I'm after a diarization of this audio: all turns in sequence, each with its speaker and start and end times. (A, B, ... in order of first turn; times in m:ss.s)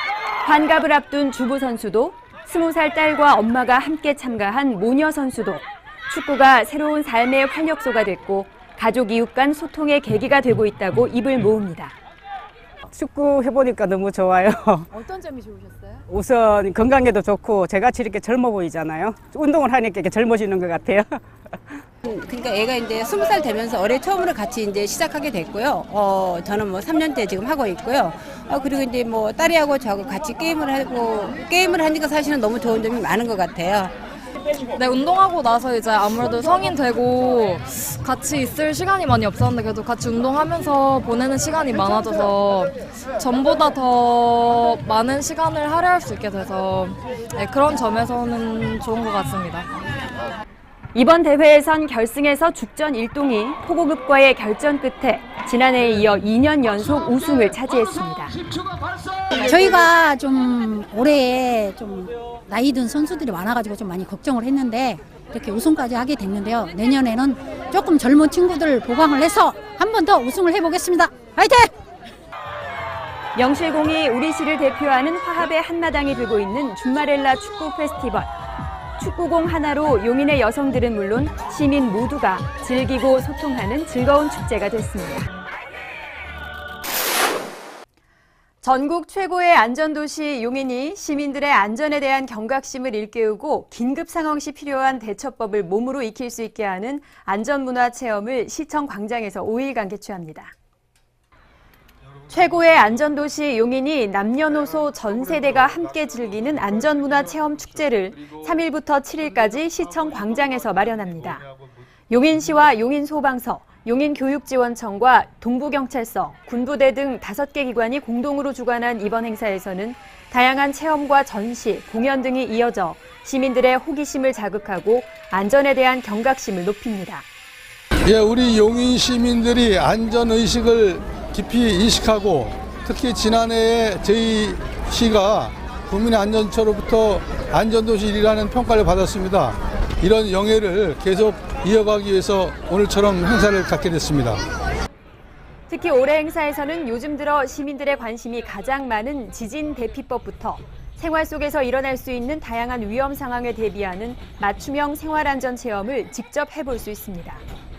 0:00.4-0:12.0 A
0:12.9-0:15.1 B
0:16.1-0:21.8 B
0:22.0-0:33.9 C
0:34.7-0:49.7 D
0:51.0-0:58.4 A
0:59.3-1:11.7 E
1:13.4-1:18.3 A
1:19.0-1:25.3 A
1:28.6-1:40.5 A
1:42.3-1:51.4 A
1:52.1-2:07.3 A
2:08.0-2:24.4 F
2:25.7-2:37.4 A